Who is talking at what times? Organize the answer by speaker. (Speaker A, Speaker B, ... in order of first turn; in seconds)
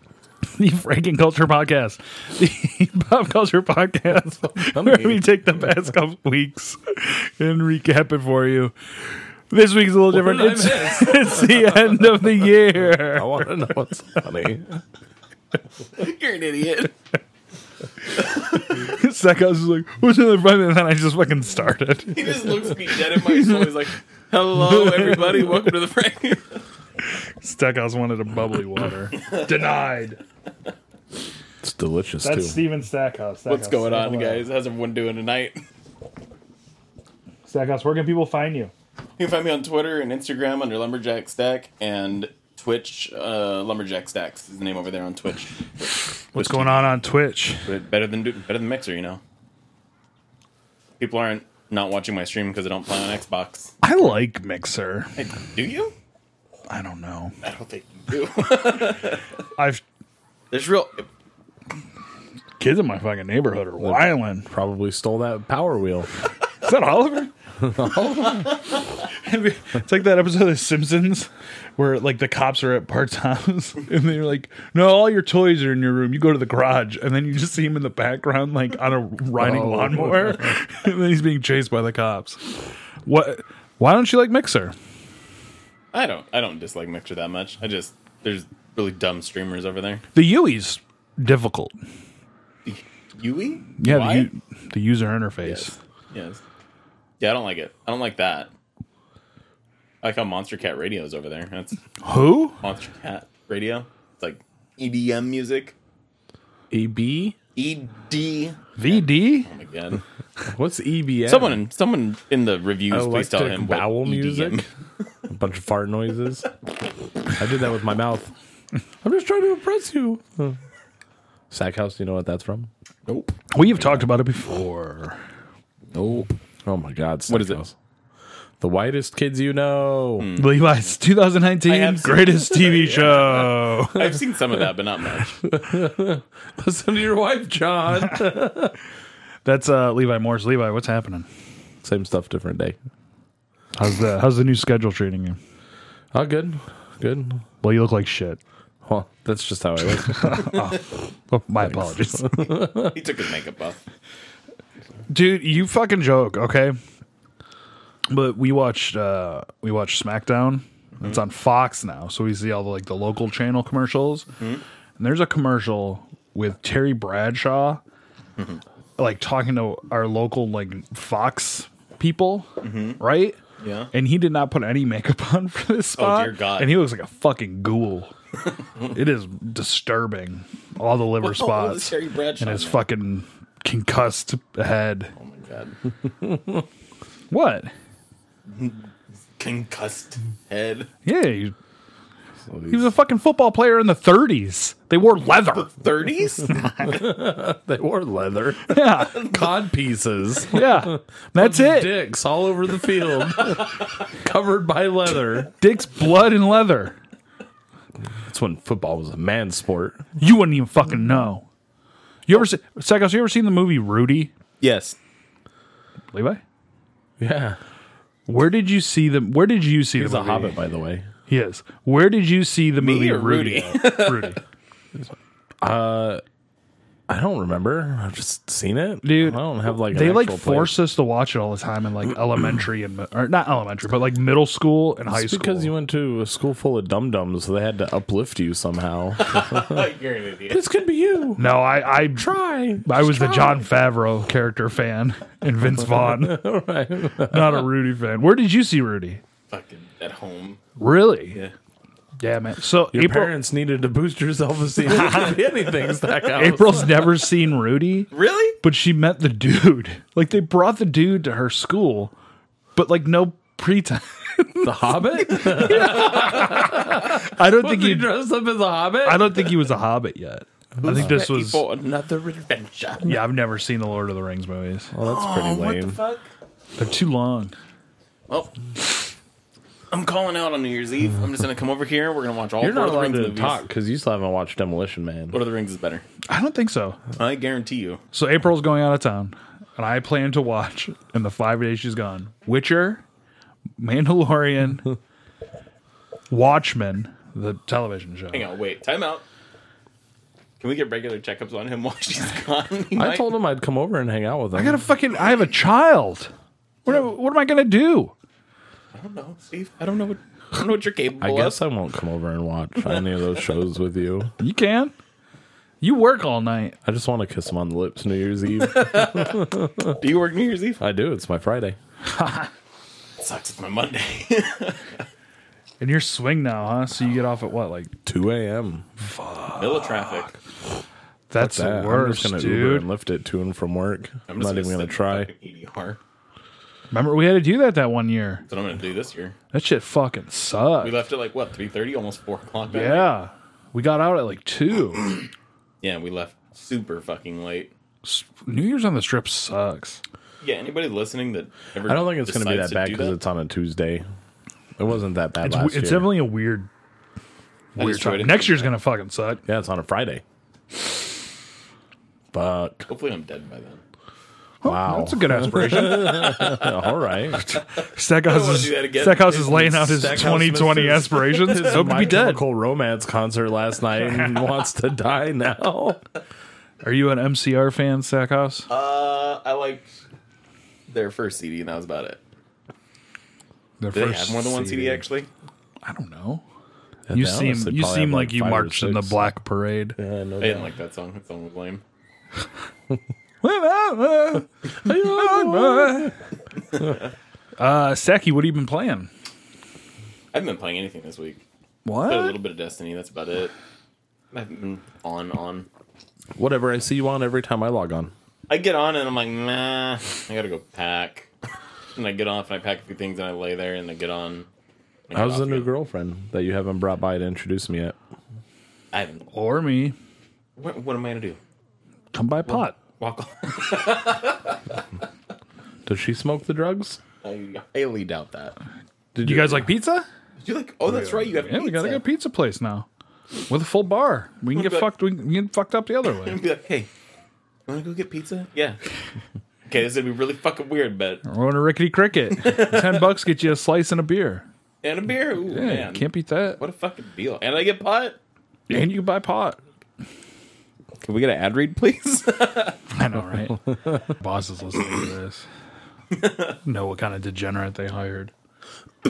Speaker A: 0.6-13.7, 18.7-23.9, 24.6-25.6, 27.4-30.2, 32.2-34.4, 37.5-38.7, 46.3-47.7, 53.8-55.1, 56.7-57.3, 59.5-59.8, 62.6-64.5, 66.6-67.3, 69.1-82.4, 83.0-84.7, 90.1-91.7, 93.8-95.8, 102.0-102.6, 108.8-109.5, 123.5-125.2, 130.3-134.2, 139.4-141.3, 143.8-145.4, 147.6-148.4, 150.1-152.5, 155.1-156.8, 158.1-164.3, 165.0-167.8, 169.0-173.4, 173.9-178.1, 178.9-185.1, 187.3-187.7, 191.0-191.5, 192.7-195.8, 196.4-197.0, 198.7-199.3, 200.5-201.9, 205.6-207.0, 210.2-211.4, 212.3-214.3, 216.1-216.4, 218.3-220.6, 221.3-224.4, 229.0-235.7, 241.4-242.3, 242.8-246.4, 247.3-249.2, 250.8-251.4, 252.2-253.3, 254.9-255.3, 256.3-258.1, 258.6-262.1, 262.7-268.1, 269.0-271.6, 273.0-274.9, 276.8-277.5, 286.3-287.0, 288.1-293.0, 293.8-294.9, 296.3-298.5, 304.5-306.3, 306.8-308.1, 314.4-314.9, 315.8-316.8, 322.1-322.5, 325.8-327.9, 329.0-330.1, 331.3-332.9, 336.9-338.4, 339.5-341.0, 342.7-345.1, 348.0-350.0, 355.4-356.7, 357.8-359.4, 364.6-366.4, 367.4-372.4, 376.8-378.7, 383.8-385.0, 385.8-386.4, 387.1-390.0, 393.4-396.1, 397.6-399.1, 401.8-402.4, 419.3-419.9, 422.1-422.8, 429.2-430.1, 430.9-432.9, 433.5-436.4, 441.2-444.4, 445.5-446.6, 448.7-449.6, 452.9-455.4, 456.6-458.3
Speaker B: 4.5-5.2, 10.1-14.8, 31.6-32.6, 63.8-66.1, 67.6-68.6, 79.4-80.6, 106.7-107.3, 110.5-111.6, 112.9-114.7, 115.3-116.5, 117.3-118.3, 119.0-120.6, 121.5-122.7, 123.8-124.1, 126.6-127.7, 128.6-130.3, 135.4-138.8, 141.8-142.8, 146.1-147.4, 148.8-150.6, 151.7-152.9, 192.5-192.9, 196.8-205.5, 208.1-210.1, 217.2-217.6, 220.0-221.1, 225.6-226.2, 227.1-230.8, 235.1-239.8, 240.5-241.6, 242.2-243.7, 245.8-247.7, 252.9-257.1, 264.6-269.4, 270.8-271.1, 274.9-276.0, 282.6-285.4, 302.9-304.8, 311.2-314.3, 316.8-320.0, 320.8-321.8, 328.1-328.8, 331.4-335.3, 351.9-354.0, 354.8-356.2, 359.4-360.2, 362.3-362.9, 364.6-367.5, 369.4-376.0, 387.1-389.3, 390.0-390.7, 394.8-396.1, 406.4-408.1, 415.1-417.9, 425.9-427.0, 429.1-429.7
Speaker C: 15.9-16.9, 18.2-18.8, 22.1-26.6, 29.1-29.8, 33.5-35.6, 39.2-46.9, 47.6-49.2, 51.0-54.1, 55.2-55.9, 57.4-59.2, 60.5-61.0, 85.9-90.0, 92.7-94.3, 95.4-96.4, 97.2-98.5, 100.0-101.8, 102.6-105.7, 107.5-110.0, 111.3-114.7, 123.1-123.3, 125.9-126.3, 127.3-127.6, 130.2-130.8, 131.6-135.4, 152.8-153.8, 164.4-164.6, 172.6-173.0, 173.6-173.9, 176.0-176.8, 181.2-182.8, 185.2-185.8, 188.5-190.9, 195.6-196.5, 214.6-215.0, 222.8-224.4, 239.2-240.6, 249.5-250.6, 258.1-258.6, 265.4-266.3, 270.8-273.2, 275.0-276.2, 279.9-283.6, 285.3-286.0, 287.2-288.0, 298.3-299.2, 300.6-303.3, 308.9-311.6, 318.6-320.8, 323.2-325.0, 329.6-330.3, 334.3-336.0, 338.5-339.3, 340.8-343.1, 345.8-347.7, 350.4-353.2, 357.8-358.7, 362.9-363.8, 365.6-366.7, 368.1-370.1, 371.4-372.1, 378.7-379.9, 380.9-382.2, 383.9-385.3, 390.4-391.8, 396.8-397.1, 400.3-401.4, 402.1-403.5, 404.3-405.7, 408.5-411.3, 411.9-414.5, 415.1-415.7, 418.9-419.3, 420.6-421.4, 423.0-424.8, 427.2-428.6, 430.4-432.0, 434.5-434.9, 436.2-436.9, 437.7-438.8, 439.7-441.2, 442.4-443.1, 444.8-448.2, 451.0-452.8, 456.1-456.5